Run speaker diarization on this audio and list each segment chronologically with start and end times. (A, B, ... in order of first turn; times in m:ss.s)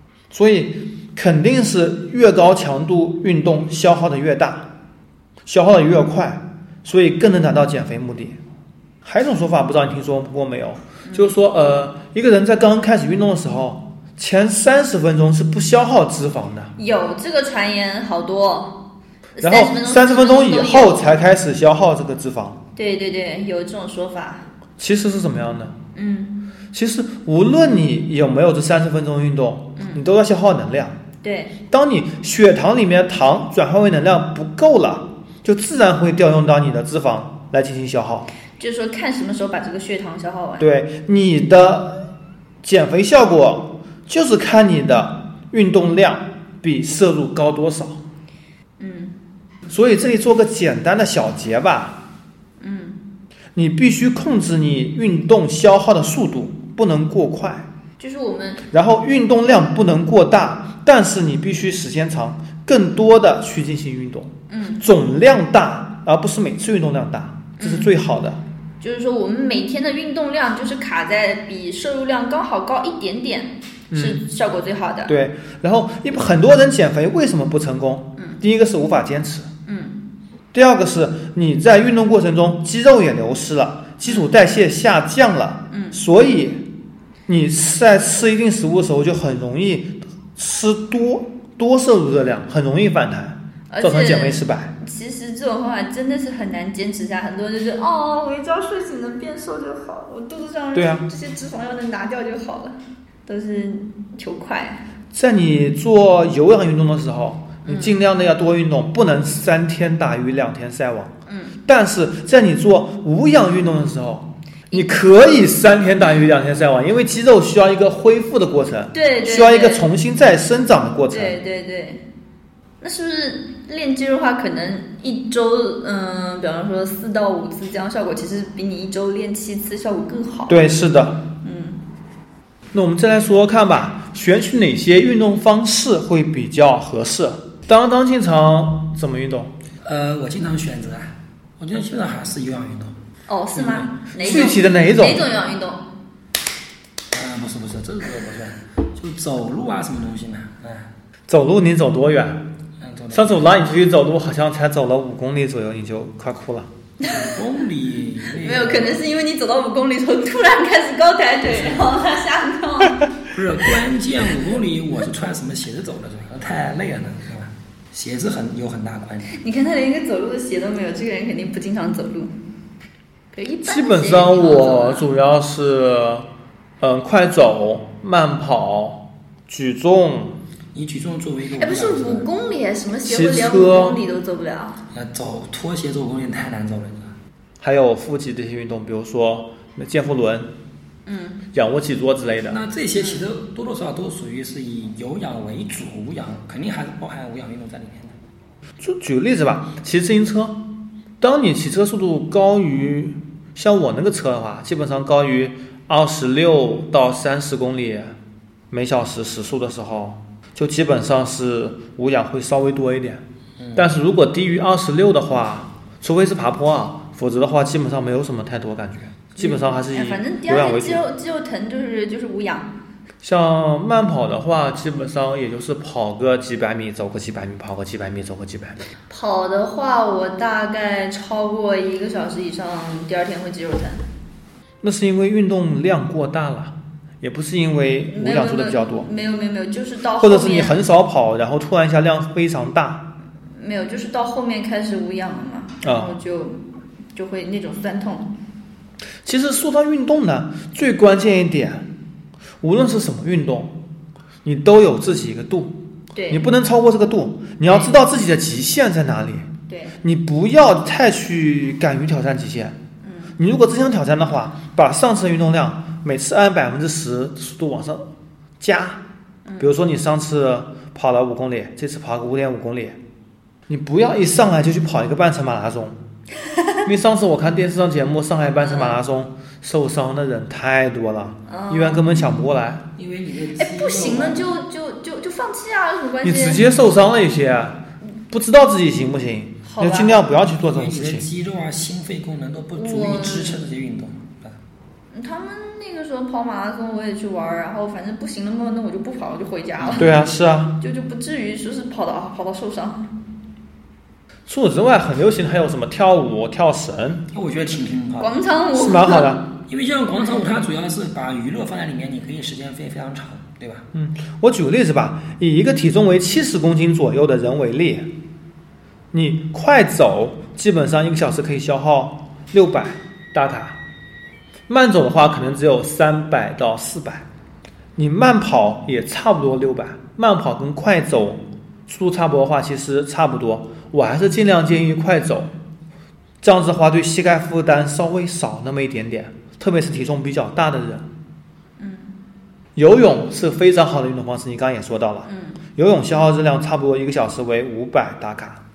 0:00.3-0:04.7 A
0:05.5-0:08.4 A
0:09.0-0:16.7 A
0:11.0-0:11.4 B
0:16.8-0:18.8 B
0:19.4-0:21.1 B
0:19.4-0:22.6 A
0:22.8-0:24.5 B
0:24.8-0:25.8 A
0:26.0-0:26.4 B
0:26.7-0:31.0 A
0:29.8-0:30.0 B
0:31.2-0:31.5 B
0:31.7-0:38.3 A
0:38.6-0:40.7 B
0:40.6-0:42.0 A
0:42.6-0:48.0 A
0:48.8-0:49.2 B
0:49.7-0:52.0 A
0:52.6-0:53.0 B
0:53.6-0:57.7 A
0:58.0-0:58.6 B
0:58.7-1:08.4 A
1:04.5-1:04.8 B
1:07.6-1:07.9 B
1:08.8-1:15.1 B
1:13.9-1:14.2 A
1:15.1-1:19.5 A
1:19.7-1:20.0 B
1:20.5-1:26.6 A
1:24.0-1:24.3 B
1:25.7-1:26.0 B
1:27.3-1:34.7 A
1:33.7-1:44.8 B
1:40.8-1:41.1 A
1:45.1-1:51.1 A
1:47.6-1:48.0 B
1:51.3-1:51.6 B
1:51.7-2:01.4 A
1:58.9-1:59.9 B
2:01.1-2:02.0 B
2:02.8-2:10.6 B
2:10.5-2:11.2 A
2:11.4-2:11.8 B
2:12.7-2:19.5 A
2:19.8-2:23.0 C
2:23.3-2:25.9 B
2:23.5-2:24.5 C
2:24.2-2:25.3 A
2:27.1-2:30.9 C
2:31.3-2:32.4 A
2:32.8-2:33.4 C
2:33.1-2:36.7 A
2:37.0-2:37.3 B
2:37.0-2:39.0 C
2:38.4-2:43.1 B
2:41.5-2:41.9 C
2:43.3-2:49.3 C
2:49.3-2:52.3 B
2:53.3-2:55.1 B
2:53.6-2:56.3 A
2:56.8-3:00.4 A
3:00.7-3:02.3 C
3:01.6-3:04.8 B
3:03.0-3:04.0 A
3:04.9-3:07.2 C
3:07.6-3:10.5 A
3:11.1-3:11.4 B
3:11.5-3:12.6 A
3:12.5-3:18.1 C
3:13.0-3:13.2 B
3:18.8-3:20.6 A
3:21.2-3:28.2 A
3:28.7-3:33.2 A
3:33.6-3:33.9 C
3:33.8-3:41.0 A
3:39.4-3:42.7 B
3:43.2-3:48.8 A
3:49.1-3:54.0 B
3:54.8-3:59.1 A
3:58.1-4:00.8 B
4:00.2-4:03.1 A
4:03.6-4:06.6 B
4:05.8-4:06.1 A
4:07.2-4:08.3 B
4:09.2-4:11.9 A
4:12.6-4:13.8 A
4:14.4-4:15.8 A
4:16.2-4:16.5 B
4:16.3-4:19.5 A
4:17.7-4:17.9 B
4:19.7-4:20.0 B
4:20.0-4:22.8 A
4:23.0-4:23.4 B
4:23.4-4:29.0 A
4:29.5-4:29.7 B
4:29.6-4:33.0 A
4:33.7-4:36.0 A
4:36.8-4:42.8 A
4:38.6-4:39.0 B
4:41.5-4:42.3 B
4:43.0-4:44.5 C
4:43.6-4:46.7 B
4:46.2-4:51.3 A
4:49.6-4:50.2 B
4:50.5-4:54.6 C
4:52.8-4:53.6 B
4:55.1-5:00.2 B
4:59.8-5:00.2 C
5:00.0-5:00.8 A
5:00.8-5:03.1 B
5:04.5-5:07.3 A
5:07.3-5:08.4 C
5:08.2-5:09.4 B
5:08.8-5:09.4 A
5:09.7-5:13.9 C
5:13.9-5:18.1 A
5:19.1-5:23.8 A
5:24.7-5:27.3 A
5:28.0-5:35.5 A
5:36.4-5:41.1 A
5:41.8-5:42.1 B
5:42.8-5:48.6 A
5:45.3-5:45.6 B